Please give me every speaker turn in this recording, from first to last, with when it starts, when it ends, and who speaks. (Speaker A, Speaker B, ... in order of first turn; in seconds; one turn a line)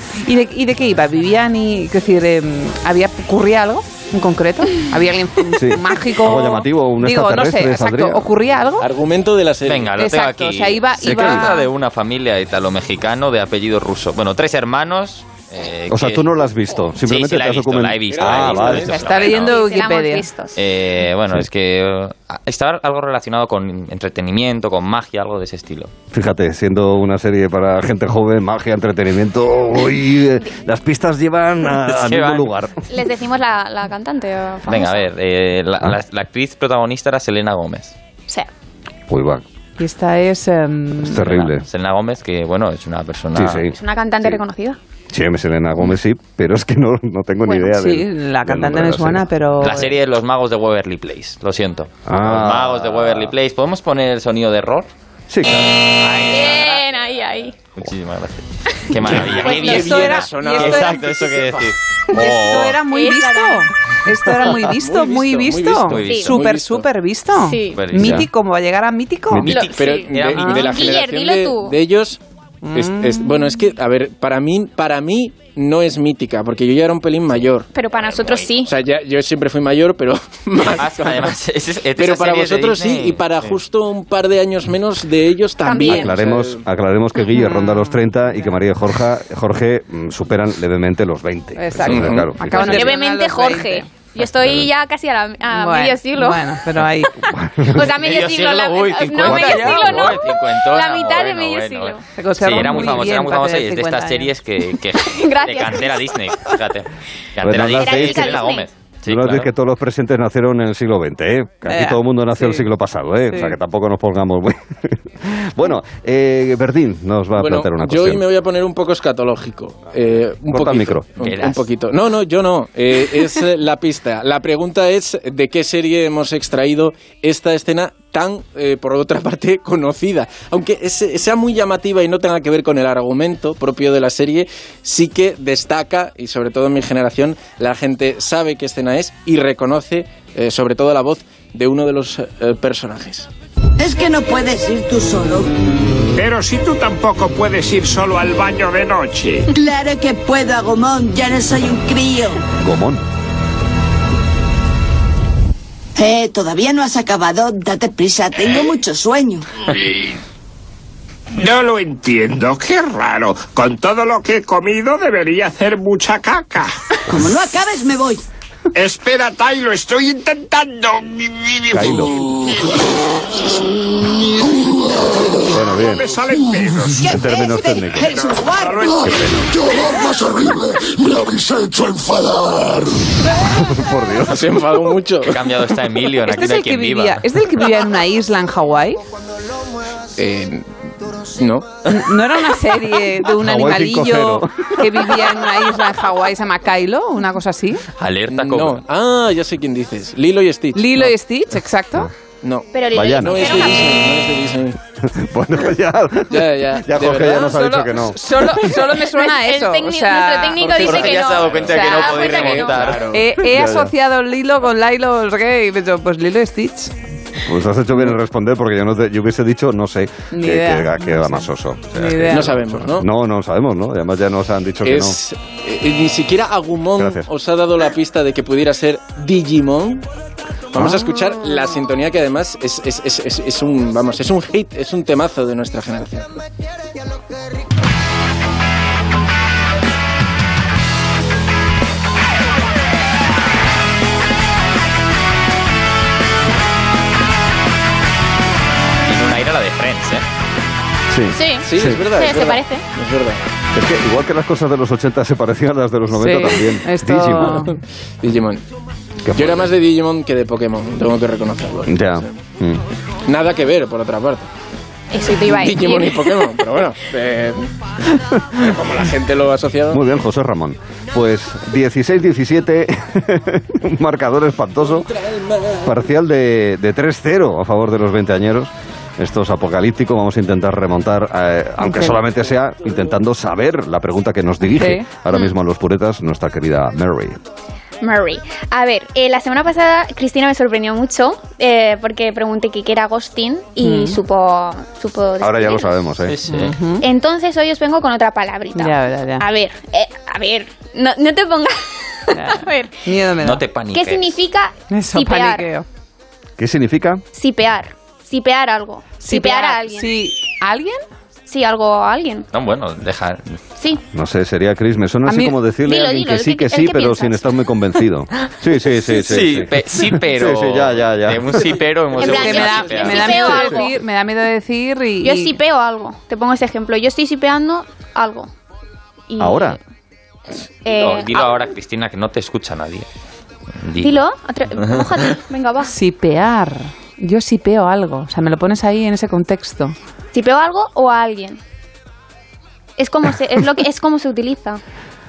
Speaker A: 0.2-8.9
Speaker B: 5.5-8.3
Speaker C: 8.8-9.9
Speaker D: 9.7-16.3
Speaker A: 9.9-11.7
Speaker B: 11.0-11.5
Speaker B: 15.9-18.9
Speaker D: 16.9-19.6
Speaker C: 18.1-18.9
Speaker E: 18.9-20.6
Speaker A: 18.9-20.3
Speaker D: 20.5-25.9
Speaker B: 26.1-32.8
Speaker D: 31.8-32.5
Speaker E: 32.9-35.1
Speaker D: 34.6-37.9
Speaker B: 39.1-39.4
Speaker A: 39.8-41.2
Speaker B: 41.0-41.6
Speaker D: 41.1-43.7
Speaker B: 43.4-44.4
Speaker E: 43.7-44.8
Speaker B: 45.1-49.3
Speaker E: 47.5-47.7
Speaker A: 47.7-49.9
Speaker D: 49.6-54.9
Speaker B: 52.1-53.3
Speaker B: 55.3-55.7
Speaker D: 55.9-56.9
Speaker E: 56.3-57.5
Speaker D: 57.8-62.8
Speaker C: 59.4-61.6
Speaker E: 59.4-59.9
Speaker A: 59.4-61.0
Speaker A: 62.1-69.5
Speaker E: 62.9-63.6
Speaker C: 64.6-66.9
Speaker D: 65.9-66.4
Speaker E: 66.0-66.3
Speaker E: 67.4-67.8
Speaker D: 67.7-68.2
Speaker B: 67.9-68.3
Speaker B: 69.3-69.7
Speaker D: 69.4-70.9
Speaker E: 69.5-69.9
Speaker C: 69.8-72.2
Speaker A: 70.3-70.8
Speaker E: 70.6-71.8
Speaker A: 72.6-73.6
Speaker C: 72.7-77.7
Speaker E: 77.7-78.7
Speaker C: 78.7-81.3
Speaker D: 80.6-83.6
Speaker C: 82.0-86.6
Speaker E: 85.6-86.2
Speaker A: 85.7-86.0
Speaker B: 85.8-93.0
Speaker A: 87.3-88.5
Speaker A: 91.5-93.9
Speaker C: 91.8-92.3
Speaker E: 92.5-96.5
Speaker B: 94.4-94.7
Speaker A: 95.5-97.1
Speaker B: 97.2-97.9
Speaker E: 97.7-102.0
Speaker D: 97.8-109.5
Speaker B: 99.2-99.8
Speaker A: 99.2-100.1
Speaker A: 102.2-104.3
Speaker B: 102.6-103.0
Speaker E: 105.0-106.2
Speaker B: 107.4-108.5
Speaker E: 107.8-108.7
Speaker B: 109.0-118.2
Speaker A: 111.7-112.7
Speaker A: 113.3-113.6
Speaker C: 117.4-143.3
Speaker B: 120.5-121.0
Speaker D: 121.2-121.6
Speaker F: 143.8-145.5
Speaker G: 146.2-149.5
Speaker F: 149.5-152.4
Speaker B: 152.6-153.0
Speaker F: 156.0-159.4
Speaker G: 159.7-160.1
Speaker G: 161.4-166.7
Speaker F: 167.1-168.2
Speaker G: 168.7-172.6
Speaker B: 171.7-172.2
Speaker B: 175.5-176.0
Speaker G: 175.8-177.1
Speaker F: 176.9-179.1
Speaker B: 177.0-178.1
Speaker G: 178.1-179.4
Speaker B: 179.0-179.5
Speaker B: 183.4-184.6
Speaker C: 184.3-185.4
Speaker D: 185.3-187.2
Speaker A: 186.3-189.0
Speaker C: 190.2-191.7
Speaker A: 191.9-197.8
Speaker B: 193.2-195.2
Speaker D: 198.0-198.8
Speaker C: 198.3-201.1
Speaker A: 200.7-202.1
Speaker C: 202.4-204.8
Speaker E: 202.7-204.1
Speaker B: 202.9-203.6
Speaker B: 205.0-208.7
Speaker C: 206.3-207.4
Speaker A: 207.3-210.9
Speaker E: 208.9-212.9
Speaker C: 210.6-213.2
Speaker D: 210.8-213.1
Speaker A: 213.1-216.9
Speaker B: 213.4-213.9
Speaker B: 217.5-225.2
Speaker A: 220.3-222.6
Speaker C: 222.3-223.1
Speaker C: 224.8-230.0
Speaker B: 227.0-227.3
Speaker C: 230.7-236.3
Speaker D: 249.1-250.2
Speaker B: 251.1-252.0
Speaker E: 251.3-252.8
Speaker C: 251.7-253.4
Speaker B: 253.7-257.6
Speaker A: 256.1-257.8
Speaker C: 258.2-258.6
Speaker B: 259.2-259.7
Speaker C: 259.3-262.3
Speaker B: 261.9-262.8
Speaker C: 263.3-264.5
Speaker E: 265.1-266.5
Speaker C: 265.5-267.7
Speaker C: 268.6-270.0
Speaker B: 269.9-275.1
Speaker C: 274.9-275.9
Speaker B: 275.8-287.4
Speaker A: 281.8-282.2
Speaker A: 284.6-285.1
Speaker E: 288.0-296.0
Speaker A: 293.8-294.2
Speaker B: 295.4-296.4
Speaker D: 296.2-296.8
Speaker A: 296.5-297.0
Speaker E: 297.0-302.9
Speaker A: 298.8-299.4
Speaker A: 302.3-303.6
Speaker D: 303.4-304.4
Speaker E: 303.9-305.7
Speaker A: 304.9-305.9
Speaker B: 306.6-307.2
Speaker E: 307.3-310.2
Speaker A: 309.2-311.0
Speaker E: 311.5-312.5
Speaker D: 312.5-313.6
Speaker E: 313.8-314.0
Speaker B: 314.1-321.7
Speaker A: 315.2-315.6
Speaker E: 315.8-317.5
Speaker D: 319.1-323.8
Speaker E: 322.2-323.9
Speaker A: 322.2-325.6
Speaker E: 325.2-328.5
Speaker E: 329.3-329.8
Speaker B: 329.4-329.8
Speaker E: 330.9-331.7
Speaker D: 330.9-333.1
Speaker D: 333.8-334.2
Speaker E: 334.0-335.9
Speaker D: 334.8-335.4
Speaker A: 335.9-339.9
Speaker E: 340.3-341.6
Speaker E: 343.0-344.8